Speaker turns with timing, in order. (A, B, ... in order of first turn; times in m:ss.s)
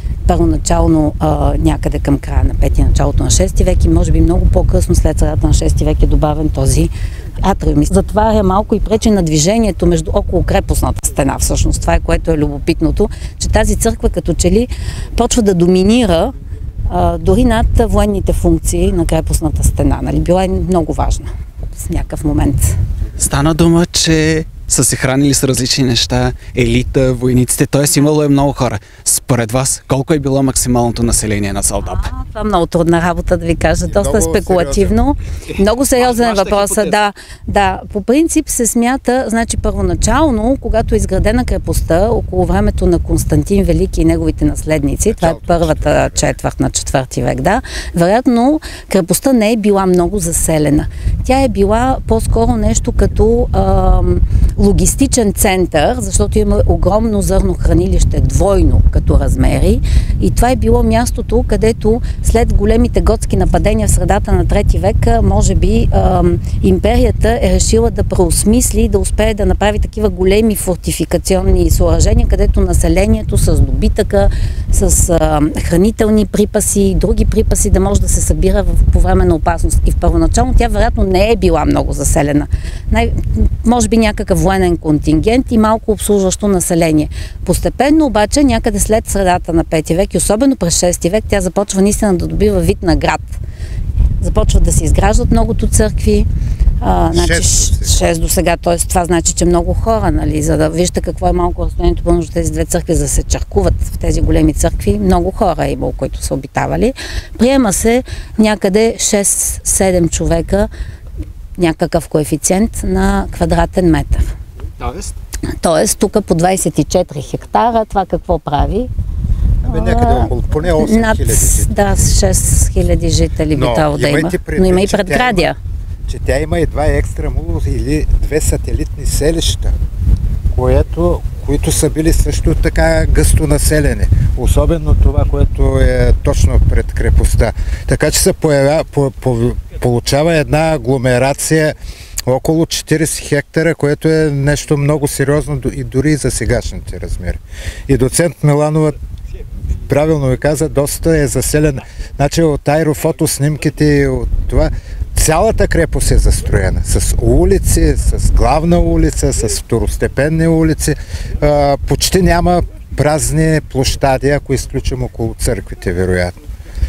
0:00.3-0:06.9 A
0:07.4-0:16.4 A
0:16.9-0:22.8 A
0:23.2-0:32.1 B
0:31.8-1:33.4 A
0:33.9-0:35.0 C
0:36.0-0:36.9 B
0:45.1-0:46.3 C
1:34.2-1:36.3 A
1:36.8-1:50.7 A
1:37.1-1:38.0 C
1:51.6-1:54.3 A
1:54.8-1:55.1 B
1:55.6-1:58.9 A
1:59.6-2:02.1 C
1:59.7-2:05.6 A
2:03.5-2:05.5 C
2:06.1-2:09.8 C
2:10.5-2:21.8 C
2:22.3-2:29.0 C
2:29.9-2:46.4 C